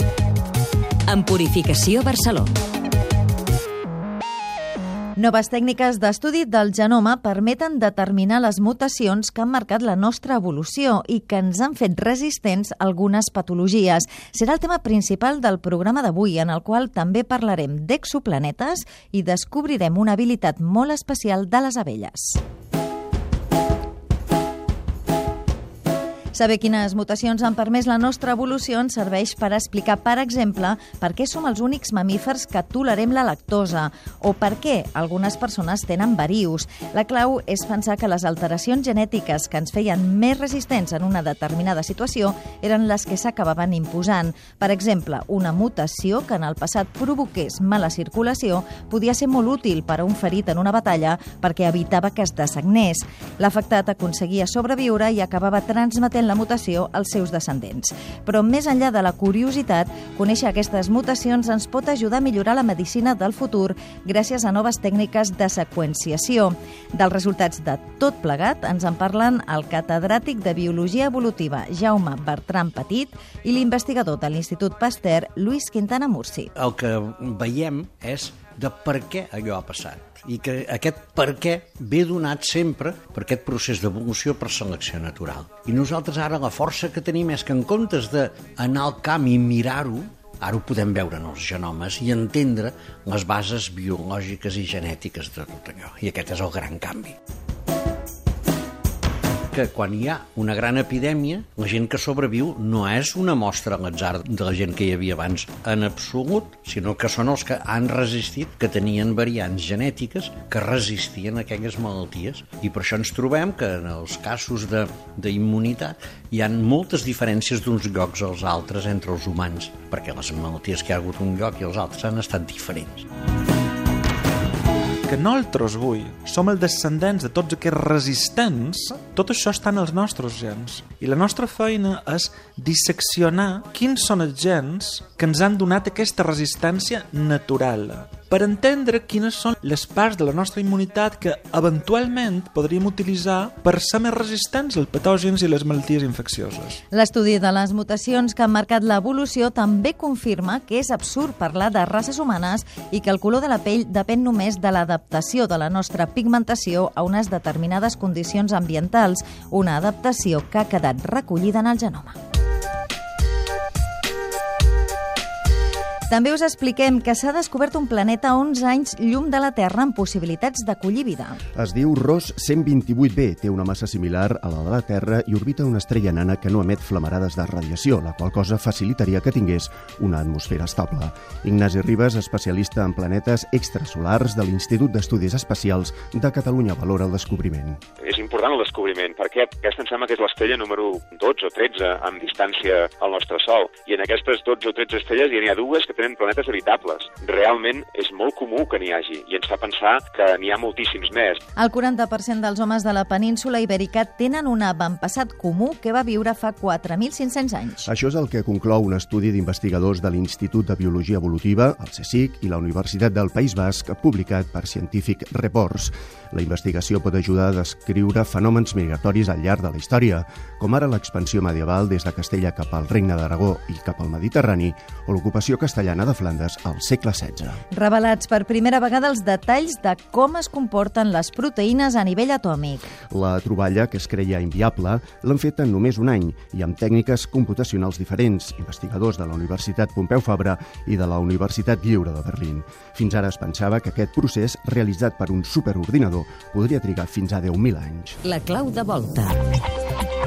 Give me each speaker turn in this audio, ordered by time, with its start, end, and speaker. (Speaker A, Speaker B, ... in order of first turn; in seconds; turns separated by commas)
Speaker A: 1.1-2.5, Speaker B: 5.2-22.4, Speaker B: 26.3-76.5, Speaker C: 76.5-97.2, Speaker C: 99.5-123.0, Speaker D: 125.0-146.8, Speaker B: 146.9-162.1, Speaker B: 166.1-171.4, Speaker E: 171.6-187.8, Speaker F: 188.0-201.4, Speaker B: 201.6-207.9, Speaker E: 207.8-227.6, Speaker B: 227.7-232.9, Speaker E: 233.1-248.2, Speaker A: 248.2-249.4